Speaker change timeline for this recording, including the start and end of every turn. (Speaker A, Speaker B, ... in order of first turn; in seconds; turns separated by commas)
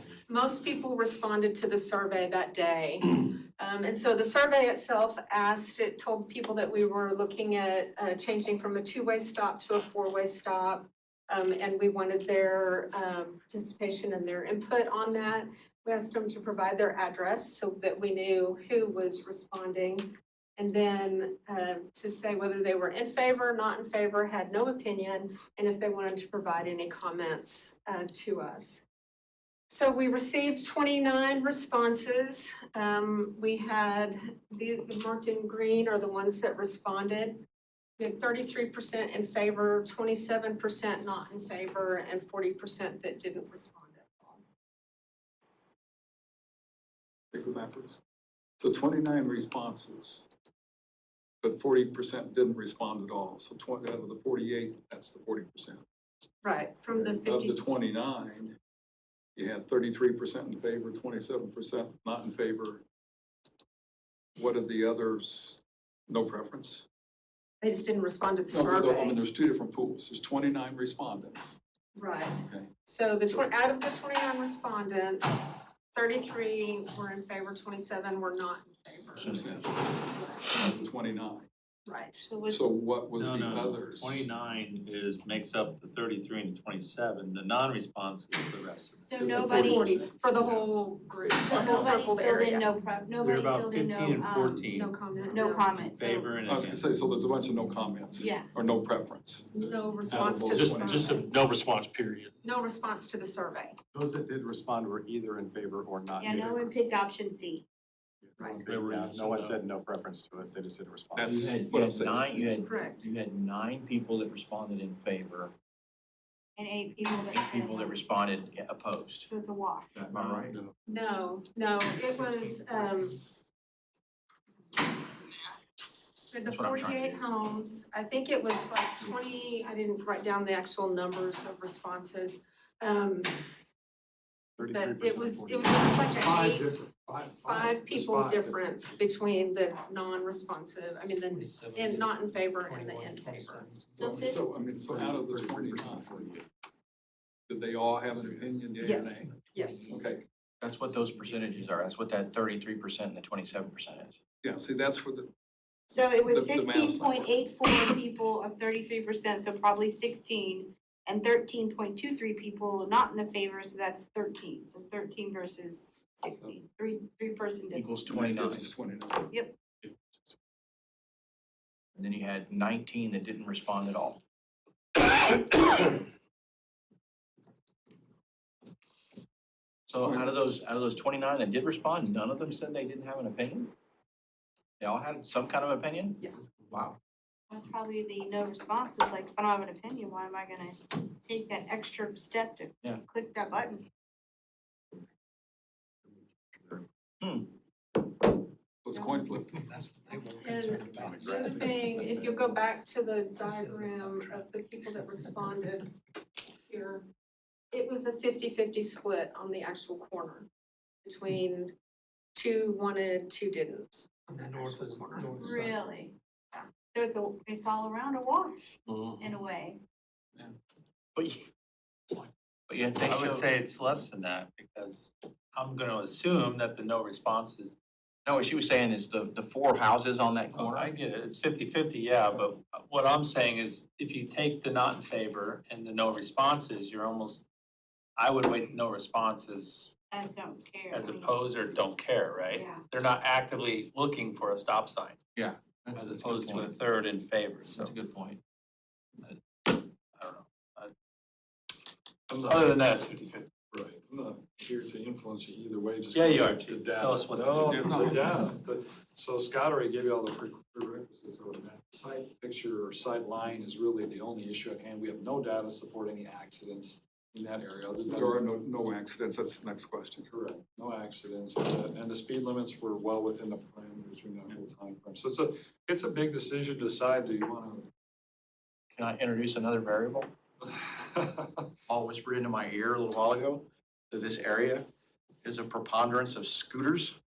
Speaker A: 0.3-28.8, Speaker A: 29.7-37.4, Speaker A: 38.0-44.4, Speaker B: 47.3-48.0, Speaker B: 48.6-50.3, Speaker B: 51.4-55.8, Speaker A: 56.4-57.8, Speaker B: 57.1-58.5, Speaker B: 59.4-62.8, Speaker B: 64.3-66.8, Speaker A: 67.6-69.2, Speaker B: 68.5-71.5, Speaker A: 72.0-80.5, Speaker B: 79.2-79.8, Speaker B: 80.5-81.5, Speaker A: 81.9-82.2, Speaker C: 82.2-82.6, Speaker B: 82.5-84.3, Speaker D: 83.1-89.6, Speaker C: 89.0-89.9, Speaker B: 89.2-89.9, Speaker A: 89.2-92.7, Speaker C: 91.4-94.6, Speaker D: 93.2-94.9, Speaker A: 94.7-95.7, Speaker C: 95.3-96.3, Speaker D: 95.9-97.0, Speaker B: 96.4-101.1, Speaker C: 98.2-98.5, Speaker A: 99.5-101.3, Speaker E: 100.1-102.3, Speaker A: 102.4-103.7, Speaker F: 103.9-106.7, Speaker C: 106.2-107.6, Speaker F: 108.4-111.4, Speaker E: 108.7-109.6, Speaker B: 111.2-112.5, Speaker G: 111.3-115.5, Speaker A: 112.6-113.1, Speaker C: 116.6-118.0, Speaker G: 117.2-119.3, Speaker C: 119.2-120.0, Speaker G: 120.0-120.6, Speaker A: 120.9-123.2, Speaker A: 126.3-133.4, Speaker G: 126.5-127.2, Speaker A: 134.6-136.7, Speaker F: 134.7-135.6, Speaker H: 136.0-138.6, Speaker A: 137.4-143.7, Speaker E: 141.7-142.0, Speaker E: 142.8-144.0, Speaker C: 143.9-144.5, Speaker B: 144.0-146.3, Speaker F: 144.6-146.4, Speaker B: 147.5-149.3, Speaker A: 148.8-149.9, Speaker B: 149.9-150.2, Speaker G: 150.6-154.2, Speaker B: 154.4-155.3, Speaker C: 155.9-168.0, Speaker B: 156.3-157.4, Speaker G: 167.7-168.7, Speaker B: 168.1-169.3, Speaker G: 172.0-174.2, Speaker G: 179.9-183.7, Speaker G: 184.8-186.9, Speaker C: 187.5-193.8, Speaker G: 197.2-197.5, Speaker B: 198.8-199.6, Speaker A: 200.1-205.9, Speaker F: 201.0-202.2, Speaker A: 206.7-207.0, Speaker A: 207.7-210.5, Speaker A: 211.0-211.7, Speaker A: 212.3-215.7, Speaker E: 214.7-215.7, Speaker C: 215.3-216.1, Speaker C: 216.9-219.8, Speaker G: 221.2-221.5, Speaker G: 222.7-223.5, Speaker D: 223.0-227.7, Speaker G: 228.2-230.9, Speaker D: 230.5-237.4, Speaker D: 238.2-239.9, Speaker C: 240.1-241.3, Speaker D: 240.9-245.2, Speaker C: 242.5-242.8, Speaker G: 245.3-246.7, Speaker D: 245.9-247.9, Speaker G: 247.7-248.4, Speaker D: 249.2-250.9, Speaker H: 252.3-252.7, Speaker D: 252.4-253.5, Speaker H: 253.7-268.6, Speaker D: 256.1-258.1, Speaker B: 257.6-258.2, Speaker B: 268.1-270.3, Speaker H: 270.3-277.9, Speaker G: 278.9-280.3, Speaker H: 280.7-281.6, Speaker G: 281.9-284.9, Speaker G: 285.4-287.2